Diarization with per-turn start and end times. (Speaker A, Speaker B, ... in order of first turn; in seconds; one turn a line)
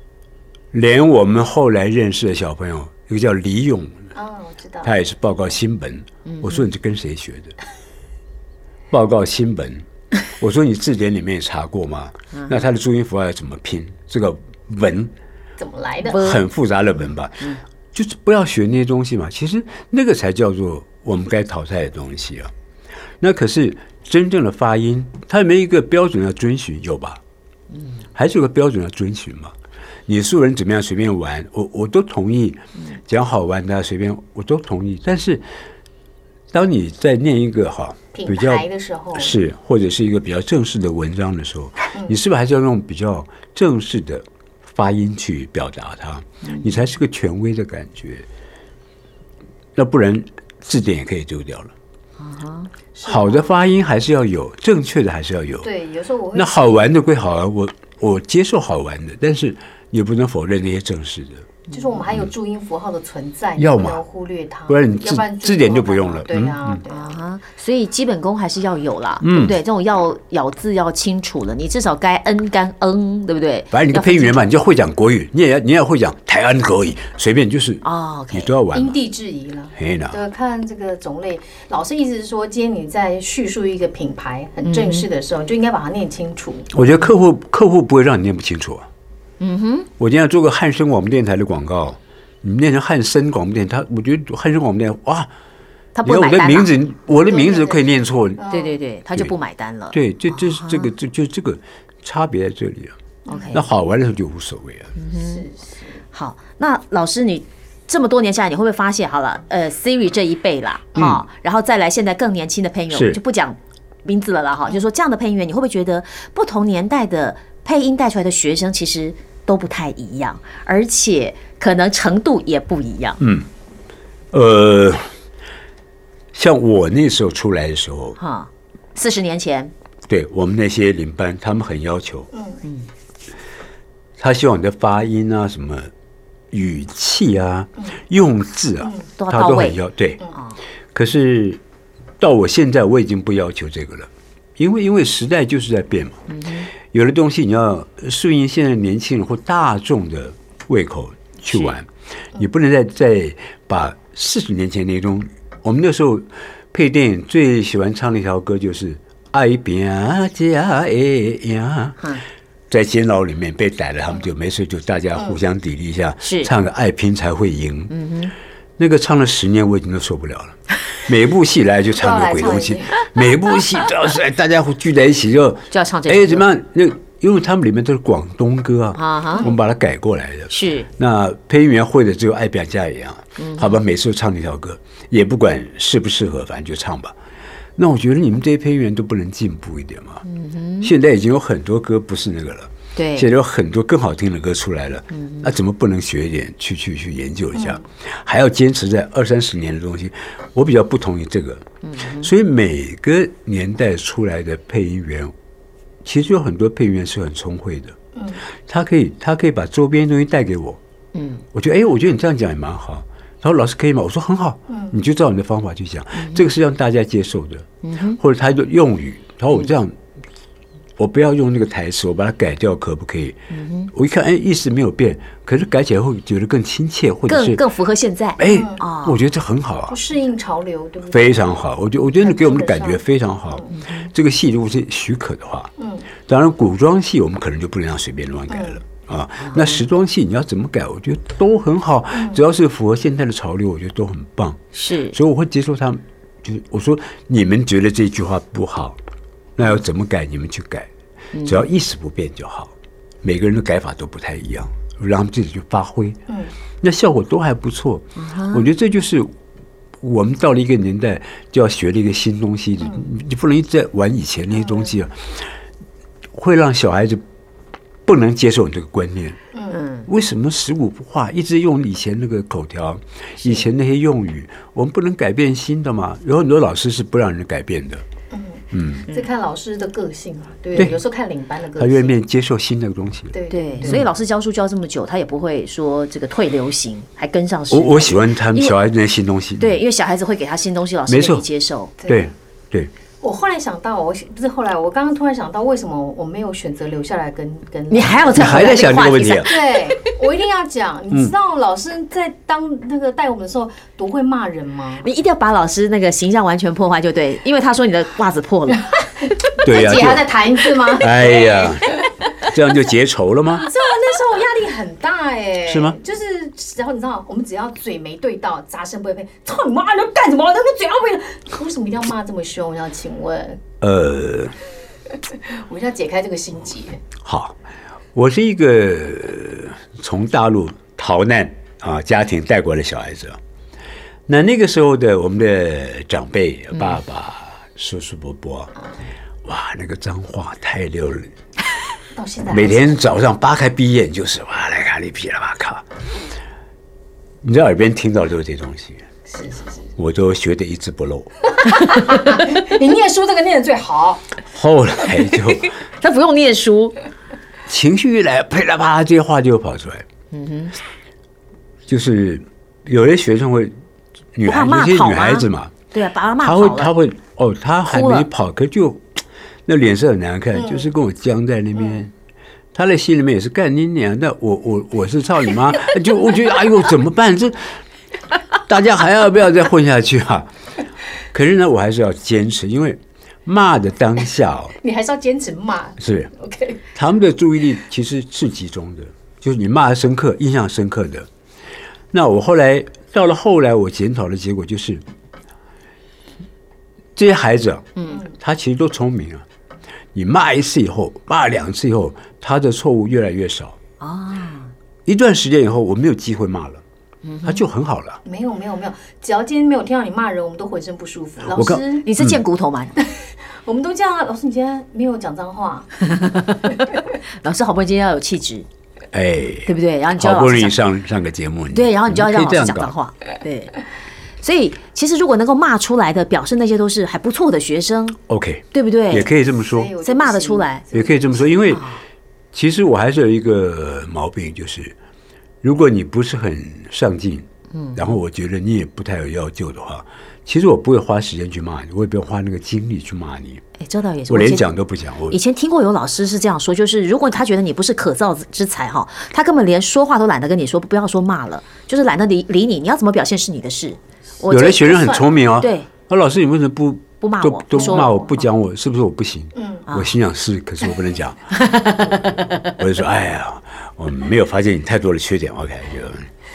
Speaker A: 0.7-4.1
Speaker B: 4.1-4.9
Speaker A: 4.8-7.5
Speaker C: 6.2-6.7
Speaker A: 8.9-15.1
Speaker B: 15.6-16.3
Speaker C: 16.0-16.4
Speaker A: 16.1-22.5
Speaker A: 23.2-27.2
Speaker A: 28.1-29.5
Speaker A: 30.1-35.4
Speaker A: 36.5-48.2
Speaker B: 38.1-39.4
Speaker C: 46.4-46.7
Speaker A: 49.8-51.7
Speaker C: 52.2-52.7
Speaker B: 52.9-53.5
Speaker A: 53.0-55.7
Speaker B: 55.6-56.9
Speaker A: 56.3-61.5
Speaker B: 61.7-67.2
Speaker A: 63.6-64.0
Speaker A: 64.7-66.8
Speaker C: 66.9-74.4
Speaker A: 69.2-69.5
Speaker A: 73.7-79.0
Speaker C: 77.8-78.5
Speaker B: 78.7-86.7
Speaker A: 79.8-80.2
Speaker C: 84.6-85.0
Speaker A: 86.7-88.9
Speaker C: 89.4-89.9
Speaker A: 90.0-95.3
Speaker C: 95.9-96.7
Speaker A: 96.0-98.4
Speaker B: 97.2-97.8
Speaker B: 98.3-98.8
Speaker C: 98.5-100.9
Speaker A: 99.9-103.0
Speaker B: 103.3-103.5
Speaker C: 103.3-103.6
Speaker A: 103.5-104.9
Speaker C: 105.0-105.4
Speaker B: 105.1-106.0
Speaker C: 106.1-123.2
Speaker A: 111.0-111.2
Speaker A: 112.9-113.2
Speaker A: 123.2-123.5
Speaker A: 124.3-125.1
Speaker A: 126.3-128.2
Speaker C: 128.2-129.7
Speaker A: 130.1-132.3
Speaker B: 132.3-132.6
Speaker A: 134.2-135.9
Speaker A: 136.5-140.2
Speaker B: 138.8-139.1
Speaker C: 139.2-139.8
Speaker A: 140.9-141.6
Speaker A: 142.2-146.2
Speaker C: 146.3-146.7
Speaker A: 146.8-162.0
Speaker A: 162.7-167.9
Speaker C: 166.2-166.5
Speaker C: 167.9-168.3
Speaker A: 168.8-187.2
Speaker B: 172.0-173.1
Speaker C: 175.7-176.4
Speaker C: 178.9-179.4
Speaker C: 180.5-180.9
Speaker C: 183.4-183.7
Speaker A: 187.8-190.2
Speaker C: 190.2-190.9
Speaker A: 190.8-205.3
Speaker C: 192.9-193.3
Speaker C: 195.1-195.5
Speaker B: 197.5-197.8
Speaker C: 201.8-202.3
Speaker A: 206.0-207.9
Speaker B: 208.1-208.4
Speaker A: 208.7-210.8
Speaker C: 211.1-211.4
Speaker A: 211.5-220.0
Speaker B: 214.7-214.9
Speaker C: 216.2-216.4
Speaker C: 217.8-218.2
Speaker A: 221.0-223.4
Speaker C: 223.5-223.9
Speaker A: 223.9-227.6
Speaker C: 227.3-229.2
Speaker A: 228.4-230.0
Speaker B: 228.4-228.8
Speaker B: 229.9-233.7
Speaker A: 231.1-235.7
Speaker C: 233.7-234.1
Speaker B: 235.8-236.1
Speaker A: 236.3-244.6
Speaker B: 238.5-238.8
Speaker C: 239.4-239.8
Speaker B: 242.1-242.4
Speaker C: 244.7-245.2
Speaker A: 245.1-249.0
Speaker A: 249.6-250.9
Speaker C: 251.3-251.6
Speaker A: 251.4-256.2
Speaker B: 256.3-256.5
Speaker A: 256.8-259.3
Speaker C: 258.2-258.6
Speaker A: 260.0-265.5
Speaker B: 262.8-263.1
Speaker B: 264.6-264.9
Speaker A: 266.3-267.2
Speaker A: 268.0-269.4
Speaker B: 269.5-269.8
Speaker C: 269.7-270.1
Speaker A: 270.1-278.0
Speaker B: 273.4-273.7
Speaker B: 278.3-282.1
Speaker A: 278.7-279.1
Speaker A: 281.8-284.1
Speaker B: 283.3-284.0
Speaker C: 283.5-288.7
Speaker A: 287.7-289.8
Speaker C: 289.6-291.9
Speaker A: 291.1-291.4
Speaker B: 292.0-292.3
Speaker A: 292.1-292.9
Speaker B: 293.2-305.0
Speaker C: 297.9-299.8
Speaker A: 298.3-299.5
Speaker C: 305.0-308.9
Speaker B: 309.6-311.8
Speaker A: 309.6-310.3
Speaker A: 310.9-313.7
Speaker B: 313.5-323.6
Speaker A: 315.6-316.0
Speaker A: 323.8-324.5
Speaker B: 325.3-327.0
Speaker A: 327.2-327.6
Speaker A: 328.1-333.4
Speaker A: 334.3-338.7
Speaker A: 339.4-341.3
Speaker B: 342.1-343.0
Speaker A: 342.5-345.9
Speaker A: 347.4-349.0
Speaker B: 349.3-349.9
Speaker A: 350.0-351.3
Speaker B: 351.7-354.2
Speaker C: 351.7-352.4
Speaker A: 354.4-355.7
Speaker C: 355.6-357.0
Speaker A: 357.7-360.1
Speaker C: 360.3-360.7
Speaker A: 361.9-363.7
Speaker A: 364.3-365.7
Speaker C: 364.4-366.9
Speaker A: 366.4-372.1
Speaker C: 367.9-368.3
Speaker B: 370.5-370.9
Speaker B: 371.8-372.0
Speaker A: 372.7-377.8
Speaker A: 378.5-380.5
Speaker A: 381.3-384.8
Speaker B: 384.8-386.8
Speaker A: 386.0-386.3
Speaker A: 386.9-391.3
Speaker A: 392.1-395.0
Speaker A: 397.1-399.4
Speaker C: 398.0-398.2
Speaker A: 400.1-403.8
Speaker C: 404.0-404.7
Speaker A: 405.1-406.8
Speaker C: 407.2-407.6
Speaker A: 407.4-408.2
Speaker B: 408.2-412.1
Speaker A: 411.5-412.4
Speaker C: 412.0-412.9
Speaker B: 413.0-415.9
Speaker C: 416.0-418.7
Speaker A: 419.1-422.9
Speaker C: 419.6-420.7
Speaker C: 421.7-423.8
Speaker C: 424.4-428.2
Speaker A: 428.3-429.9
Speaker C: 428.7-429.3
Speaker B: 429.5-431.5
Speaker C: 430.0-430.8
Speaker A: 430.9-431.8
Speaker C: 431.7-432.0
Speaker A: 432.5-434.9
Speaker A: 435.6-443.6
Speaker C: 437.7-438.1
Speaker C: 443.8-444.7
Speaker A: 444.3-445.4
Speaker C: 445.3-455.9
Speaker A: 454.5-461.5
Speaker B: 454.7-455.4
Speaker C: 457.2-458.1
Speaker B: 457.7-458.4
Speaker B: 459.5-459.9
Speaker C: 461.5-462.7
Speaker A: 462.4-466.3